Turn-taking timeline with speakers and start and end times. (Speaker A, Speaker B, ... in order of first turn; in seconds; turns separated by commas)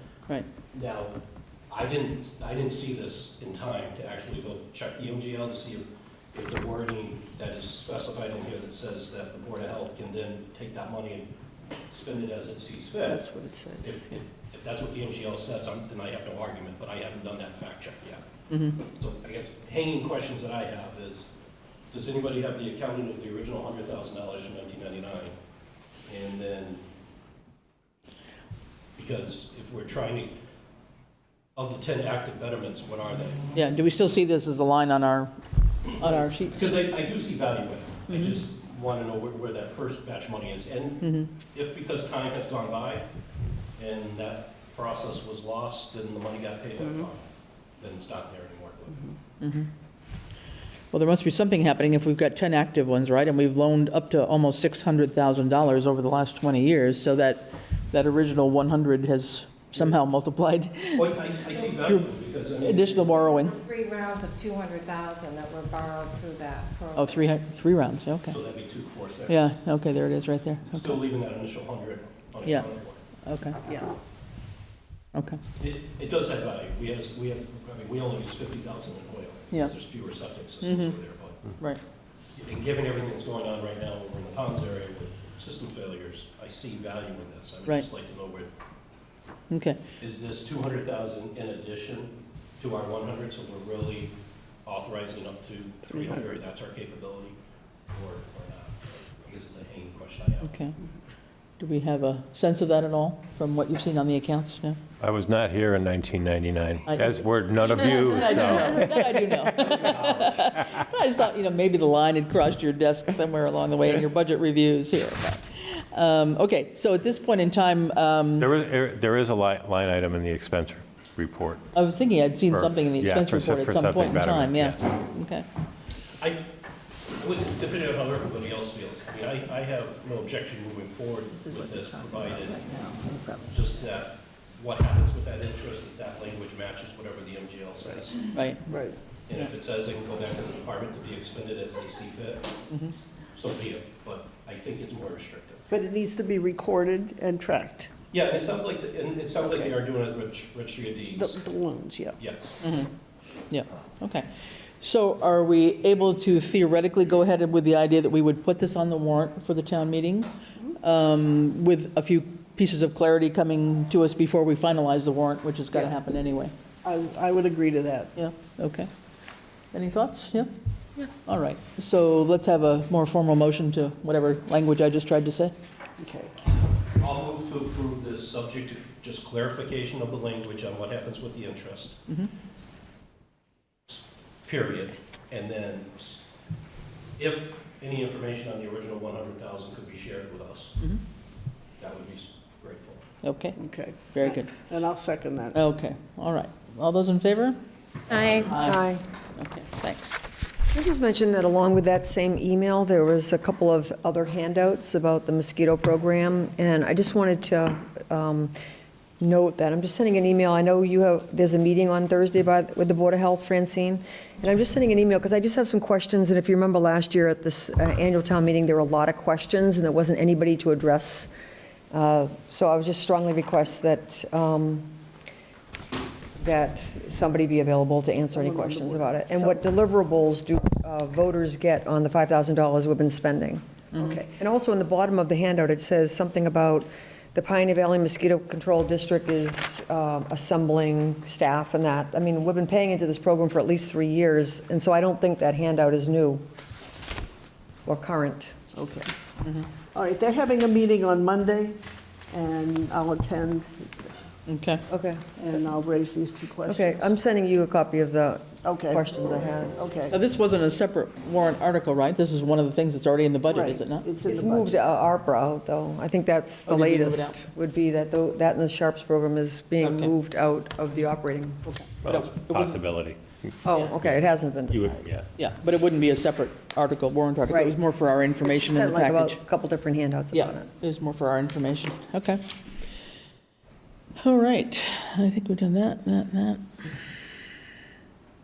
Speaker A: 0.7-1.2, Speaker A: 1.7-11.3, Speaker A: 11.9-13.3, Speaker B: 13.1-14.2, Speaker A: 13.8-18.2, Speaker C: 18.5-18.8, Speaker A: 18.8-21.3, Speaker A: 21.9-25.4, Speaker A: 26.1-26.8, Speaker A: 29.0-30.3, Speaker A: 31.6-33.5, Speaker C: 33.5-36.8, Speaker A: 35.9-43.0, Speaker C: 41.0-41.3, Speaker A: 43.8-47.3, Speaker A: 47.8-49.1, Speaker C: 49.4-49.7, Speaker C: 50.9-62.1, Speaker A: 61.0-63.2, Speaker C: 62.6-63.6, Speaker D: 63.2-67.3, Speaker C: 67.0-68.4, Speaker A: 68.3-69.5, Speaker C: 69.3-71.0, Speaker A: 70.7-73.0, Speaker C: 72.5-72.7, Speaker C: 73.2-73.6, Speaker B: 73.7-73.9, Speaker C: 75.1-75.4, Speaker A: 75.6-81.5, Speaker C: 80.6-81.0, Speaker A: 82.4-88.5, Speaker C: 89.5-89.8, Speaker A: 90.0-97.4, Speaker B: 95.9-96.2, Speaker A: 97.9-100.5, Speaker C: 100.4-100.8, Speaker C: 101.6-104.8, Speaker E: 105.0-109.1, Speaker C: 106.9-118.5, Speaker A: 109.5-110.4, Speaker E: 118.4-121.7, Speaker C: 121.7-125.5, Speaker E: 122.5-125.0, Speaker A: 126.2-126.4, Speaker A: 127.1-132.8, Speaker F: 132.9-133.2, Speaker A: 133.4-138.3, Speaker C: 138.3-138.7, Speaker B: 138.7-139.0, Speaker A: 139.3-142.6, Speaker A: 143.3-145.7, Speaker B: 145.7-147.9, Speaker A: 148.1-151.4, Speaker B: 149.4-149.7, Speaker B: 151.2-152.2, Speaker A: 152.2-152.7, Speaker C: 152.6-152.9, Speaker C: 153.5-154.3, Speaker C: 154.8-166.5, Speaker B: 166.8-168.1, Speaker C: 168.2-168.9, Speaker C: 169.7-175.5, Speaker B: 176.0-176.3, Speaker A: 176.9-182.0, Speaker A: 183.9-186.2, Speaker A: 187.2-190.8, Speaker A: 191.8-193.0, Speaker C: 193.2-194.5, Speaker B: 193.6-195.6, Speaker C: 195.5-197.6, Speaker D: 198.1-198.5, Speaker C: 198.3-200.2, Speaker F: 198.5-199.0, Speaker F: 200.7-208.5, Speaker F: 209.2-221.3, Speaker F: 221.9-224.9, Speaker F: 226.4-246.4, Speaker B: 228.3-229.6, Speaker C: 233.9-234.2, Speaker F: 247.9-248.6, Speaker B: 248.7-249.1, Speaker B: 249.9-251.8, Speaker B: 252.3-254.1, Speaker C: 254.5-254.8, Speaker F: 254.9-255.3, Speaker B: 255.4-257.1, Speaker F: 256.6-259.7, Speaker B: 258.6-260.2, Speaker C: 260.1-264.1, Speaker B: 263.5-264.8, Speaker F: 264.2-271.6, Speaker C: 266.7-267.4, Speaker C: 269.8-270.1, Speaker E: 272.0-275.3, Speaker C: 272.0-272.8, Speaker F: 273.6-275.1, Speaker C: 275.4-279.4, Speaker F: 277.5-277.8, Speaker F: 278.4-280.7, Speaker C: 280.3-282.4, Speaker C: 284.2-286.6